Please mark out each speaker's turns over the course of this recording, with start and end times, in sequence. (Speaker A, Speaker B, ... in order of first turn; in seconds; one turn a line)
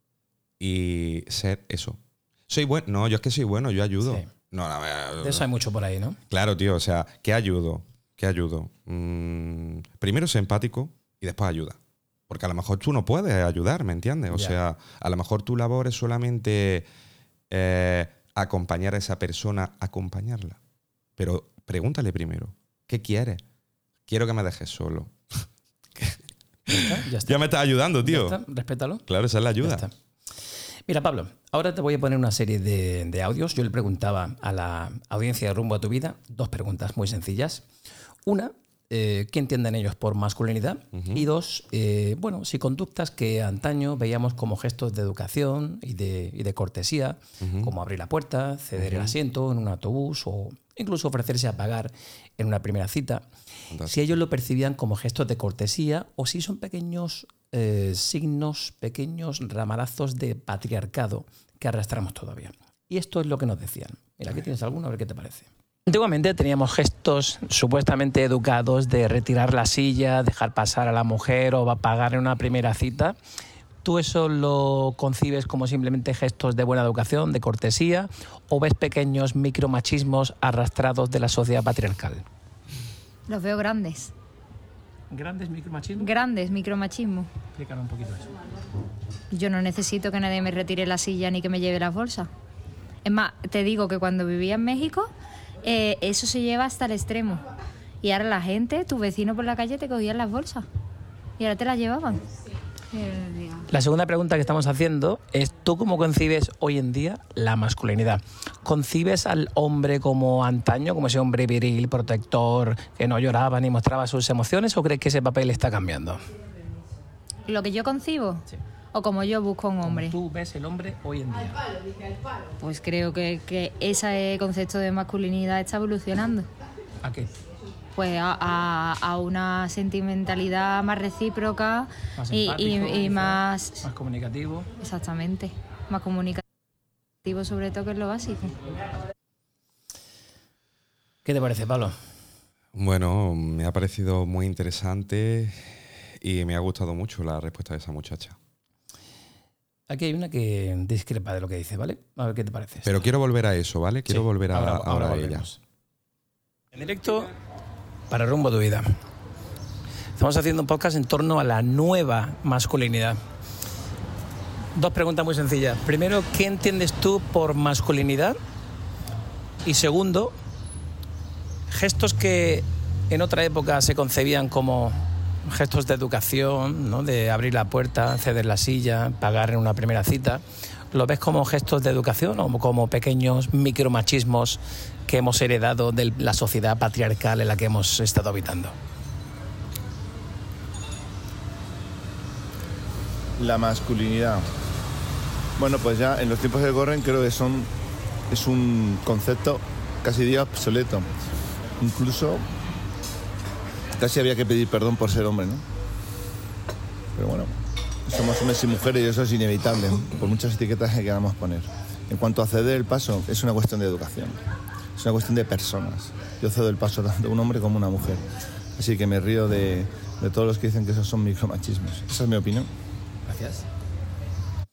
Speaker A: 0.6-5.5
Speaker B: 4.0-4.3
Speaker B: 5.2-6.2
Speaker A: 6.3-16.9
Speaker B: 14.3-14.6
Speaker A: 17.5-20.6
Speaker A: 21.2-23.4
Speaker A: 24.1-28.4
Speaker B: 26.7-27.4
Speaker B: 28.0-29.0
Speaker A: 29.1-29.9
Speaker B: 29.6-29.9
Speaker B: 30.9-37.6
Speaker B: 38.2-53.2
Speaker A: 40.9-41.3
Speaker A: 47.4-47.7
Speaker A: 48.8-49.1
Speaker A: 53.7-54.2
Speaker B: 53.9-73.1
Speaker B: 73.8-82.2
Speaker C: 83.3-84.1
Speaker B: 85.1-86.1
Speaker C: 86.0-87.3
Speaker B: 87.5-88.3
Speaker C: 89.3-92.3
Speaker C: 93.0-95.1
Speaker C: 95.6-97.4
Speaker C: 98.0-100.7
Speaker C: 101.4-102.2
Speaker C: 102.9-103.7
Speaker B: 103.7-116.2
Speaker C: 117.5-120.2
Speaker B: 119.8-121.6
Speaker C: 122.6-126.5
Speaker B: 127.0-127.3
Speaker C: 128.0-133.8
Speaker B: 132.2-134.7
Speaker C: 134.8-136.4
Speaker C: 137.2-138.6
Speaker B: 141.2-141.9
Speaker A: 142.7-148.4
Speaker B: 149.9-153.1
Speaker A: 152.8-155.5
Speaker B: 154.1-155.6
Speaker B: 156.7-157.3
Speaker B: 158.1-159.0
Speaker B: 160.2-163.2
Speaker B: 164.8-168.3
Speaker B: 169.6-170.3
Speaker B: 171.7-188.8
Speaker D: 193.4-194.4
Speaker D: 195.6-197.7
Speaker D: 198.3-201.1
Speaker D: 201.8-202.4
Speaker D: 203.9-205.6
Speaker D: 207.2-214.4
Speaker D: 214.9-218.2
Speaker D: 218.8-222.7
Speaker B: 223.2-223.7